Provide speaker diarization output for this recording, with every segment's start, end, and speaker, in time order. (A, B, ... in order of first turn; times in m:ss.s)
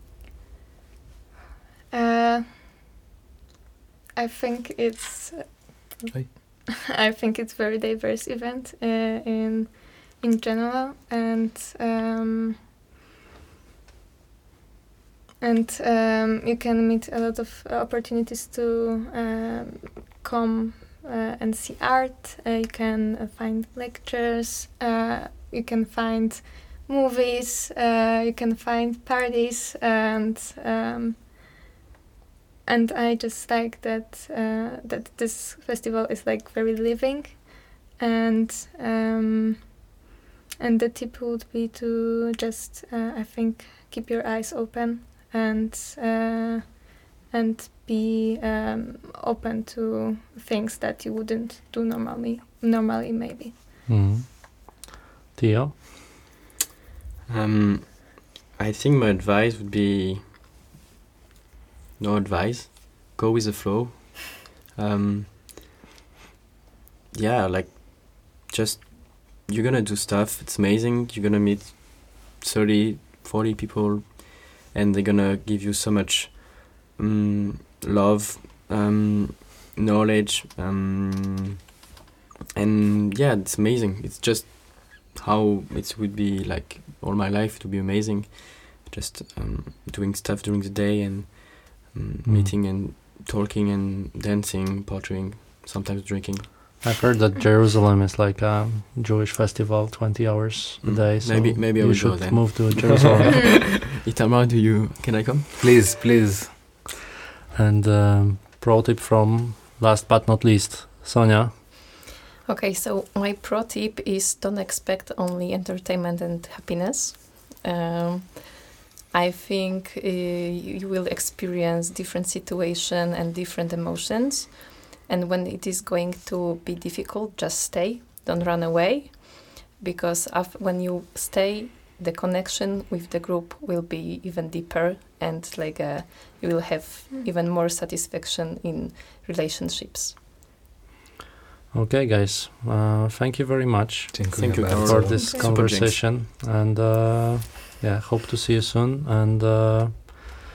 0:01.9-0:02.5 A
0:04.2-0:12.6 A
0:15.4-0:31.3 A
0:32.7-0:39.8 A
0:40.6-0:53.6 A
0:53.9-0:55.8 B
0:57.3-1:00.3 C
1:02.0-1:05.4 C
1:07.1-1:21.5 C
1:22.6-1:36.8 C
1:32.2-1:32.6 B
1:36.8-1:43.4 B
1:40.8-1:45.5 C
1:45.6-1:46.8 D
1:47.5-1:51.5 B
1:52.5-2:20.2 E
2:21.7-2:30.4 B
2:24.1-2:25.2 D
2:24.4-2:26.0 C
2:25.2-2:25.5 A